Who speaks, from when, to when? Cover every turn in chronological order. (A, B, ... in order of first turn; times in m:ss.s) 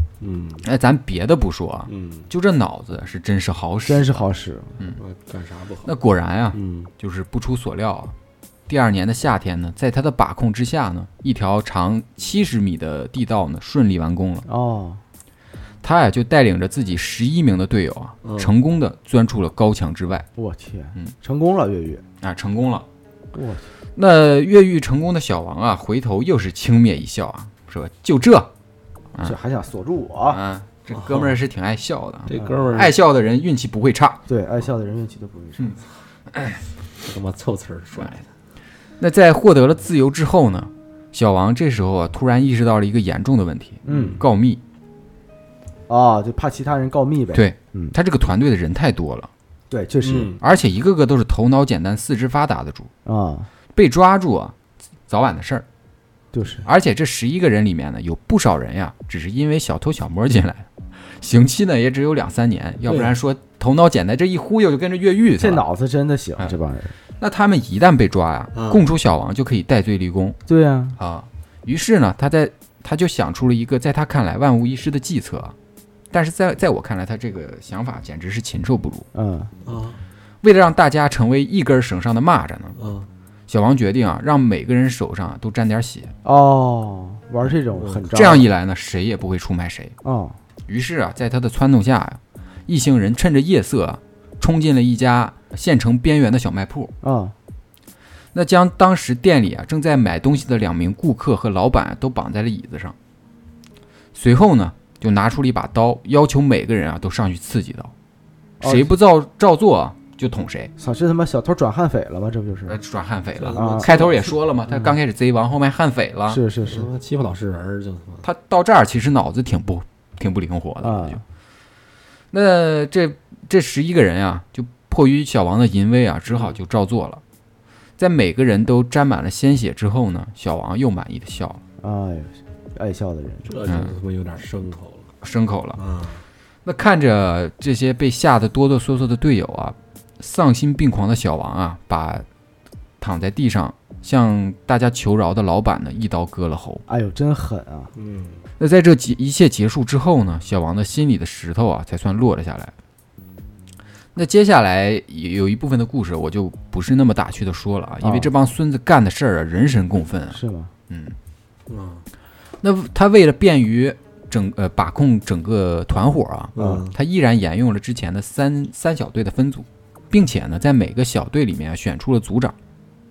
0:00.2-0:00.7 A
0:00.6-0:04.3 B
0:01.9-0:02.3 A
0:03.8-0:04.8 C
0:05.0-0:05.9 A
0:05.8-0:08.1 B
0:06.5-0:06.9 A
0:08.7-0:14.4 B
0:14.4-0:15.0 C
0:15.8-0:20.2 B
0:18.2-0:18.5 A
0:20.4-0:22.0 C
0:22.2-0:22.8 B
0:23.3-0:23.6 C
0:24.0-0:28.5 B
0:29.2-0:30.4 C
0:30.3-0:34.2 B
0:30.9-0:31.4 A
0:32.3-0:33.0 A
0:34.3-0:35.8 C
0:36.3-0:36.6 B
0:37.0-0:38.2 A
0:39.0-0:44.6 B
0:43.8-0:44.2 C
0:43.9-0:44.2 A
0:45.9-0:48.0 C
0:47.3-0:49.3 B
0:49.7-0:50.3 C
0:50.0-0:50.4 A
0:50.4-0:52.9 B
0:53.0-0:53.5 C
0:53.7-0:54.5 B
0:55.1-0:55.6 B
0:56.3-0:56.6 C
0:56.6-1:05.6 B
1:02.9-1:03.1 A
1:05.4-1:06.9 C
1:07.2-1:10.4 B
1:08.5-1:08.8 A
1:10.5-1:11.0 C
1:11.0-1:15.5 B
1:16.1-1:19.0 B
1:19.1-1:19.5 C
1:19.6-1:20.0 A
1:20.4-1:22.8 B
1:22.8-1:23.1 A
1:23.5-1:26.1 B
1:26.2-1:28.5 C
1:27.7-1:28.1 A
1:28.1-1:29.9 B
1:30.0-1:30.4 C
1:30.7-1:36.9 B
1:37.0-1:37.3 C
1:38.3-1:43.0 B
1:44.1-1:47.9 B
1:48.6-1:48.9 C
1:48.6-1:50.7 B
1:50.8-1:52.8 C
1:52.7-1:56.4 B
1:53.4-1:54.4 A
1:53.5-1:53.9 C
1:56.3-1:56.9 C
1:56.6-1:58.3 A
1:58.2-2:01.2 B
2:00.8-2:01.2 C
2:02.3-2:07.2 B
2:08.0-2:11.6 B
2:11.8-2:13.5 C
2:13.4-2:15.1 A
2:15.2-2:15.8 B
2:15.8-2:16.2 A
2:16.6-2:22.2 B
2:23.0-2:26.8 B
2:26.9-2:27.9 C
2:28.0-2:28.4 A
2:28.6-2:32.7 B
2:34.1-2:41.2 B
2:38.0-2:38.3 C
2:40.3-2:40.7 C
2:41.7-2:42.0 A
2:42.6-2:52.5 B
2:46.5-2:46.9 A
2:46.6-2:46.8 C